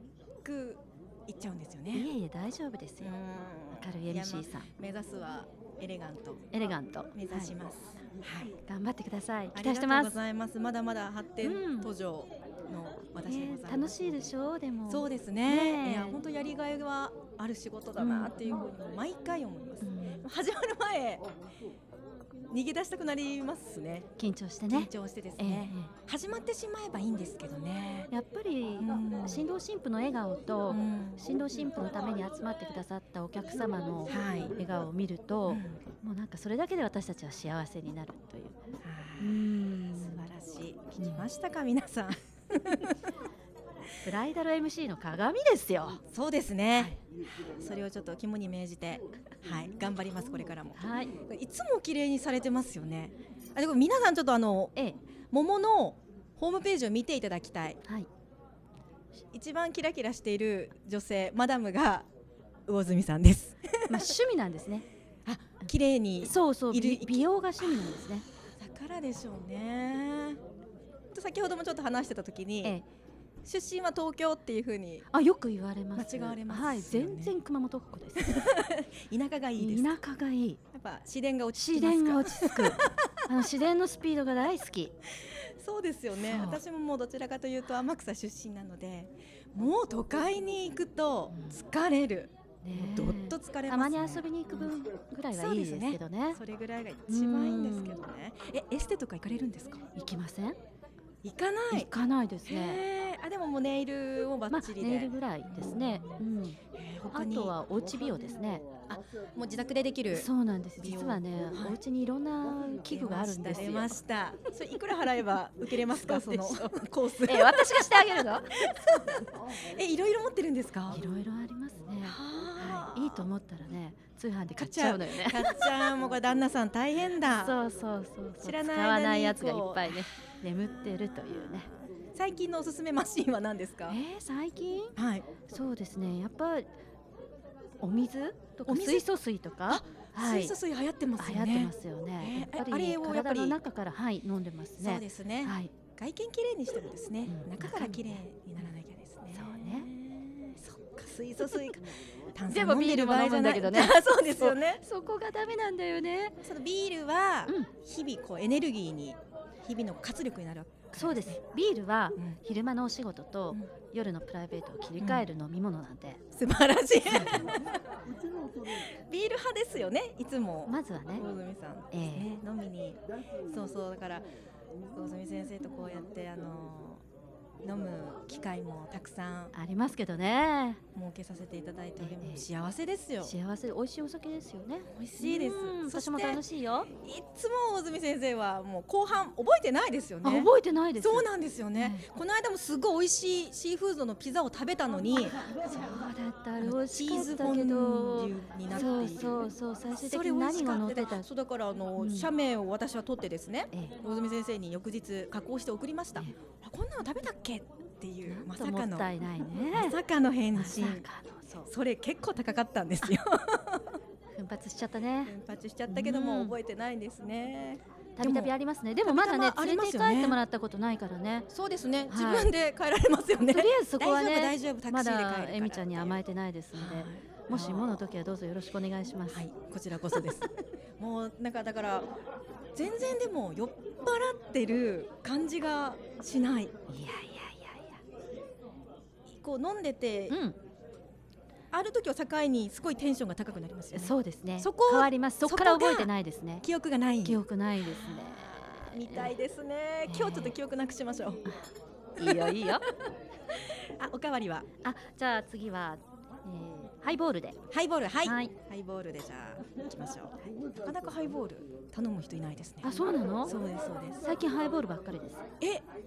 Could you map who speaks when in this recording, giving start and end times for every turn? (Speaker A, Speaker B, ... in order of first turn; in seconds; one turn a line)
Speaker A: 0.4-2.1
Speaker B: 1.9-3.1
Speaker A: 3.0-6.4
Speaker B: 3.7-4.7
Speaker B: 6.5-7.5
Speaker A: 7.1-8.6
Speaker B: 8.7-10.2
Speaker A: 9.5-14.3
Speaker B: 11.4-11.9
Speaker B: 13.3-16.2
Speaker A: 14.9-21.2
Speaker B: 18.0-18.6
Speaker B: 19.8-20.2
Speaker A: 22.5-24.1
Speaker B: 24.2-25.9
Speaker A: 24.7-28.1
Speaker B: 28.1-38.6
Speaker A: 28.8-29.5
Speaker A: 30.7-31.2
Speaker A: 34.1-34.6
Speaker A: 35.5-35.8
Speaker A: 38.8-43.0
Speaker B: 39.2-40.3
Speaker B: 41.0-41.3
Speaker B: 44.0-46.0
Speaker A: 46.1-54.7
Speaker B: 50.8-51.2
Speaker A: 55.3-57.8
Speaker A: 59.3-62.1
Speaker A: 62.7-64.1
Speaker B: 63.9-64.9
Speaker A: 65.3-67.8
Speaker B: 66.2-68.2
Speaker A: 68.6-70.4
Speaker A: 71.1-72.8
Speaker A: 73.5-75.1
Speaker B: 75.1-78.5
Speaker A: 76.0-77.3
Speaker A: 78.2-80.0
Speaker B: 79.6-80.6
Speaker A: 80.7-83.1
Speaker B: 81.5-84.9
Speaker A: 85.6-94.7
Speaker B: 86.2-86.6
Speaker B: 91.3-91.6
Speaker B: 92.6-96.4
Speaker A: 95.3-99.8
Speaker B: 97.1-98.0
Speaker B: 100.0-100.6
Speaker A: 101.2-101.9
Speaker B: 101.7-102.8
Speaker A: 102.5-106.2
Speaker B: 104.5-106.6
Speaker A: 106.7-108.3
Speaker B: 107.1-108.7
Speaker A: 108.9-110.3
Speaker B: 110.1-114.0
Speaker A: 110.8-111.8
Speaker A: 112.9-117.9
Speaker B: 115.9-119.2
Speaker A: 118.5-121.0
Speaker B: 120.9-125.9
Speaker A: 122.0-123.3
Speaker A: 124.6-127.6
Speaker B: 127.3-131.7
Speaker A: 128.4-130.1
Speaker A: 130.6-134.0
Speaker B: 133.9-134.9
Speaker A: 134.9-135.3
Speaker B: 135.5-136.7
Speaker B: 137.8-140.6
Speaker A: 138.7-139.1
Speaker A: 139.7-143.6
Speaker B: 141.2-145.7
Speaker A: 144.8-154.8
Speaker B: 147.3-148.7
Speaker B: 149.3-149.9
Speaker B: 152.5-156.4
Speaker A: 156.4-161.4
Speaker B: 161.0-166.2
Speaker A: 165.0-165.3
Speaker A: 166.3-167.8
Speaker B: 167.1-167.5
Speaker A: 168.7-174.3
Speaker B: 170.7-171.3
Speaker B: 171.9-172.3
Speaker A: 174.9-177.0
Speaker A: 177.6-179.5
Speaker B: 179.5-180.8
Speaker A: 180.9-183.3
Speaker B: 182.0-182.5
Speaker B: 183.2-186.9
Speaker A: 184.9-186.4
Speaker A: 187.0-195.4
Speaker B: 190.2-192.0
Speaker B: 195.6-201.3
Speaker A: 196.6-199.4
Speaker A: 200.0-211.1
Speaker B: 202.0-202.3
Speaker B: 208.2-210.0
Speaker B: 210.5-211.7
Speaker A: 211.7-214.0
Speaker B: 214.3-215.3
Speaker A: 215.3-218.5
Speaker B: 215.9-216.5
Speaker B: 218.2-221.5
Speaker A: 219.0-220.4
Speaker A: 221.5-226.2
Speaker B: 222.1-222.5
Speaker B: 223.5-229.4
Speaker A: 226.8-228.0
Speaker A: 229.3-232.1
Speaker A: 232.7-236.7
Speaker B: 236.9-238.0
Speaker A: 239.3-240.4
Speaker B: 240.3-240.6
Speaker A: 241.7-246.1
Speaker B: 243.9-246.7
Speaker A: 246.6-251.4
Speaker B: 247.2-249.3
Speaker B: 250.1-250.6
Speaker A: 252.2-252.8
Speaker B: 252.2-252.8
Speaker A: 253.6-254.7
Speaker B: 254.8-257.6
Speaker A: 257.7-264.3
Speaker B: 258.2-258.5
Speaker B: 262.8-263.6
Speaker B: 264.2-265.4